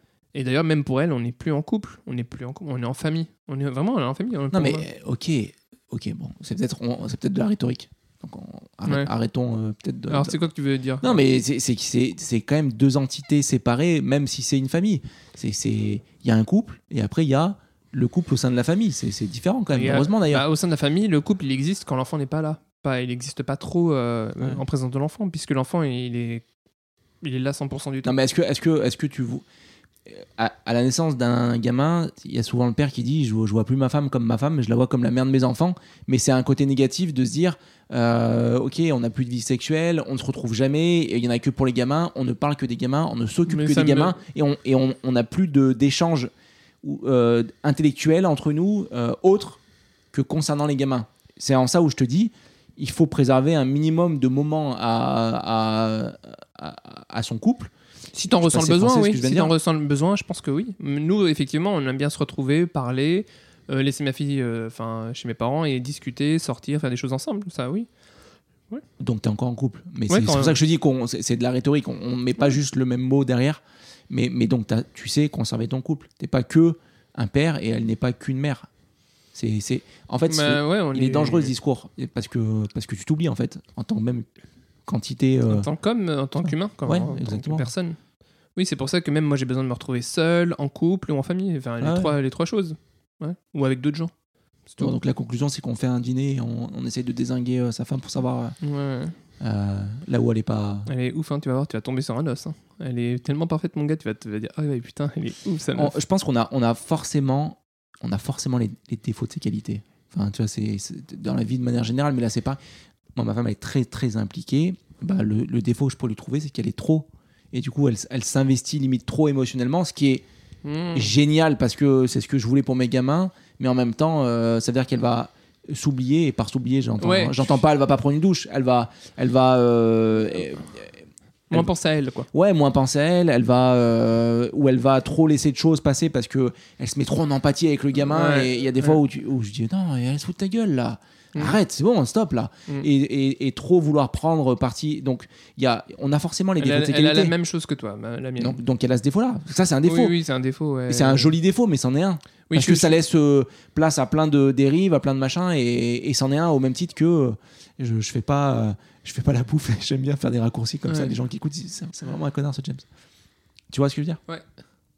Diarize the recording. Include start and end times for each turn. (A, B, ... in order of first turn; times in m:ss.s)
0:00.3-0:04.8 A
0:04.5-0:10.4 B
0:10.1-0:11.2 A
0:11.0-0:20.4 B
0:19.7-0:26.4 A
0:27.2-0:28.1 A
0:28.0-0:29.4 B
0:30.1-0:46.3 B
0:43.5-0:44.2 A
0:46.8-0:49.6 B
0:50.1-0:57.7 B
0:58.1-1:07.9 A
0:58.4-0:59.5 B
1:09.0-1:18.7 B
1:10.1-1:10.6 A
1:19.3-1:24.3 B
1:20.3-1:21.5 A
1:24.9-1:25.7 B
1:25.5-1:28.0 A
1:26.8-1:27.7 B
1:28.6-1:34.1 A
1:31.8-1:32.1 B
1:34.7-1:34.9 A
1:34.8-1:38.6 B
1:38.6-1:39.2 A
1:39.4-1:40.9 B
1:40.9-1:45.9 A
1:45.8-1:52.6 B
1:53.2-2:00.2 B
2:00.6-2:01.1 A
2:00.9-2:10.9 B
2:07.0-2:07.6 A
2:11.5-2:12.3 A
2:12.3-2:27.3 B
2:18.1-2:19.0 A
2:26.6-2:28.6 A
2:28.4-2:30.2 B
2:29.9-2:31.4 A
2:30.9-2:42.9 B
2:32.5-2:33.0 A
2:40.9-2:41.1 A
2:43.7-2:44.2 B